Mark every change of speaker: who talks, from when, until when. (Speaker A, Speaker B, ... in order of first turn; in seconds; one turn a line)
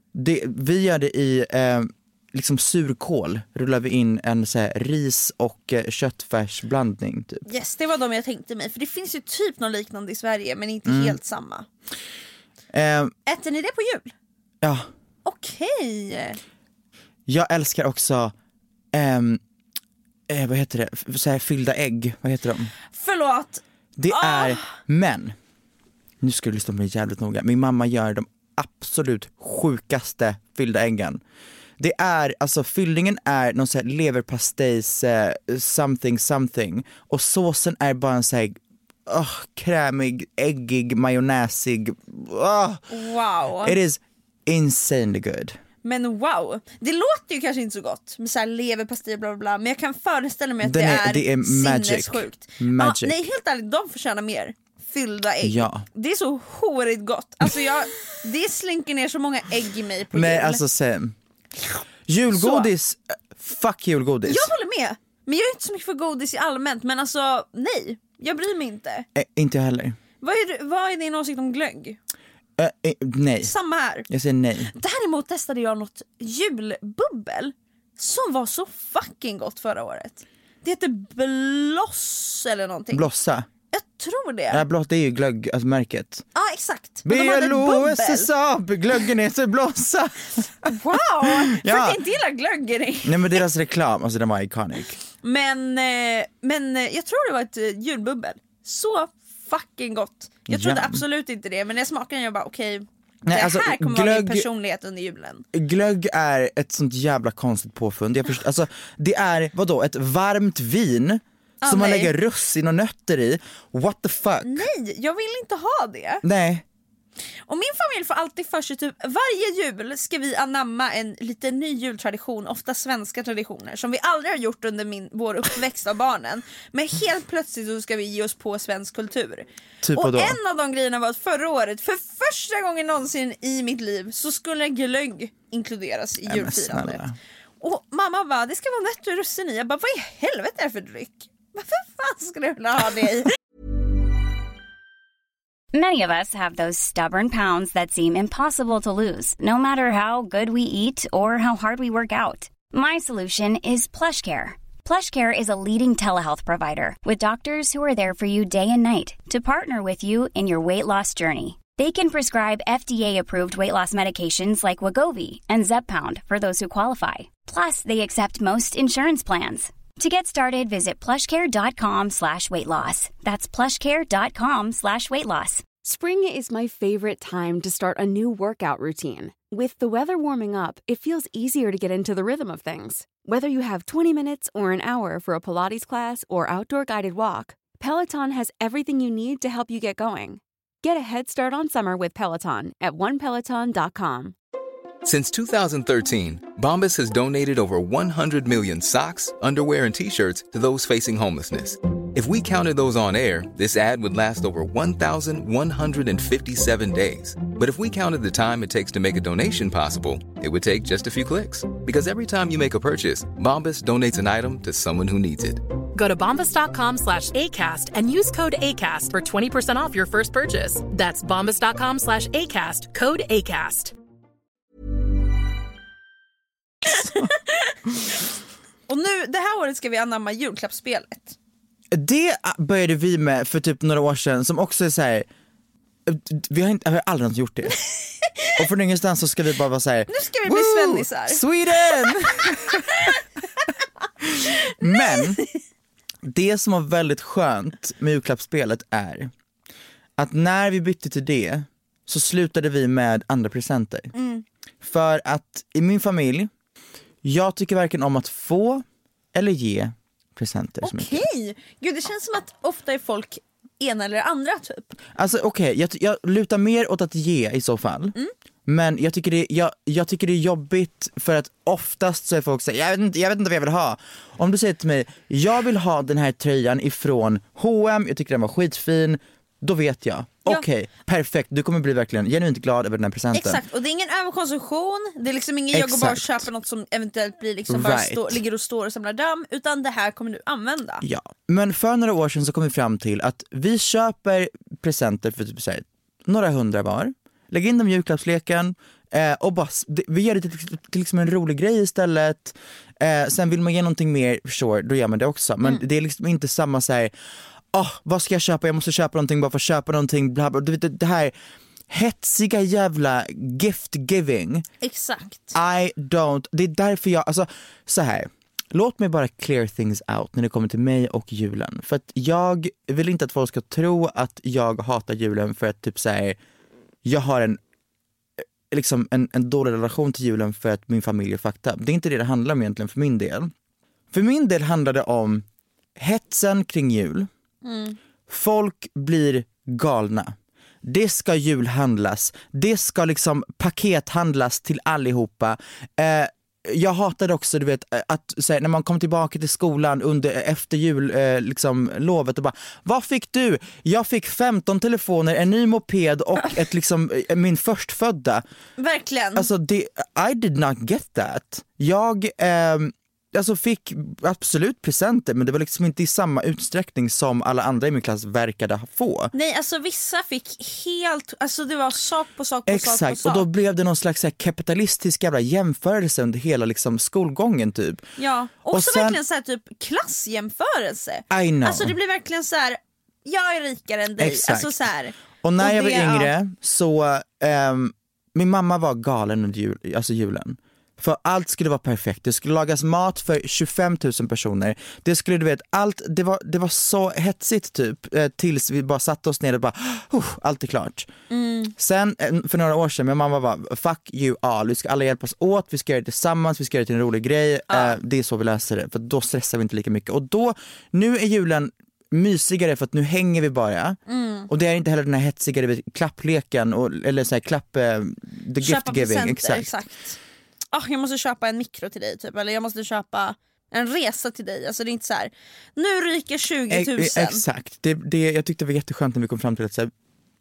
Speaker A: 0.1-7.5
Speaker B: 7.5-11.7
Speaker A: 10.9-11.2
Speaker A: 12.7-13.1
Speaker B: 13.3-14.1
Speaker A: 14.6-14.9
Speaker B: 15.2-16.4
Speaker A: 17.3-18.3
Speaker A: 18.9-19.4
Speaker A: 20.3-22.7
Speaker B: 22.9-24.8
Speaker A: 24.0-25.4
Speaker A: 26.2-31.2
Speaker A: 31.8-42.8
Speaker B: 42.9-43.8
Speaker A: 43.6-45.6
Speaker B: 45.8-60.6
Speaker A: 50.6-53.2
Speaker A: 55.4-55.9
Speaker A: 60.1-61.2
Speaker A: 62.1-64.5
Speaker B: 62.3-62.7
Speaker B: 64.3-69.1
Speaker A: 69.2-70.0
Speaker B: 70.2-72.0
Speaker A: 72.6-73.5
Speaker B: 73.4-74.1
Speaker A: 74.1-74.7
Speaker B: 74.7-83.1
Speaker A: 82.9-83.5
Speaker B: 83.7-84.6
Speaker A: 84.5-86.3
Speaker B: 86.3-88.3
Speaker A: 87.0-92.0
Speaker B: 90.7-93.4
Speaker A: 93.0-95.0
Speaker B: 95.2-105.5
Speaker A: 100.5-101.0
Speaker A: 103.3-104.5
Speaker A: 105.5-114.7
Speaker B: 111.6-112.1
Speaker B: 114.4-116.2
Speaker A: 116.2-116.7
Speaker B: 117.5-137.0
Speaker A: 129.8-130.4
Speaker A: 136.3-137.2
Speaker B: 137.6-143.3
Speaker C: 145.7-175.7
Speaker D: 175.8-194.4
Speaker E: 195.0-215.6
Speaker F: 215.9-223.9
Speaker B: 226.9-228.2
Speaker B: 228.9-231.4
Speaker A: 231.9-235.3
Speaker A: 236.1-237.8
Speaker A: 238.6-243.0
Speaker B: 240.1-242.1
Speaker B: 242.8-243.1
Speaker A: 244.2-245.4
Speaker B: 244.8-245.3
Speaker A: 246.2-249.3
Speaker A: 250.2-254.1
Speaker B: 254.1-254.4
Speaker A: 254.8-256.5
Speaker A: 257.2-261.2
Speaker B: 260.8-265.0
Speaker A: 265.1-268.1
Speaker A: 268.7-283.6
Speaker B: 283.3-291.0
Speaker A: 285.7-286.5
Speaker A: 287.7-288.4
Speaker A: 291.0-307.1
Speaker A: 307.7-311.4
Speaker A: 311.9-314.6
Speaker B: 314.8-315.6
Speaker A: 315.5-326.4
Speaker A: 327.1-327.6
Speaker A: 328.7-333.5
Speaker A: 334.1-335.4
Speaker A: 336.0-337.3
Speaker B: 337.6-338.0
Speaker A: 338.3-358.4
Speaker B: 358.8-359.5
Speaker A: 359.4-369.3
Speaker B: 369.3-373.5
Speaker A: 372.7-378.1
Speaker B: 378.2-386.3
Speaker A: 378.7-379.2
Speaker A: 381.3-381.9
Speaker A: 384.2-384.8
Speaker A: 385.4-401.1
Speaker B: 401.3-401.7
Speaker A: 401.8-419.7
Speaker B: 407.7-408.0
Speaker B: 414.1-414.5
Speaker B: 418.6-420.2
Speaker B: 420.7-427.4
Speaker A: 426.7-429.9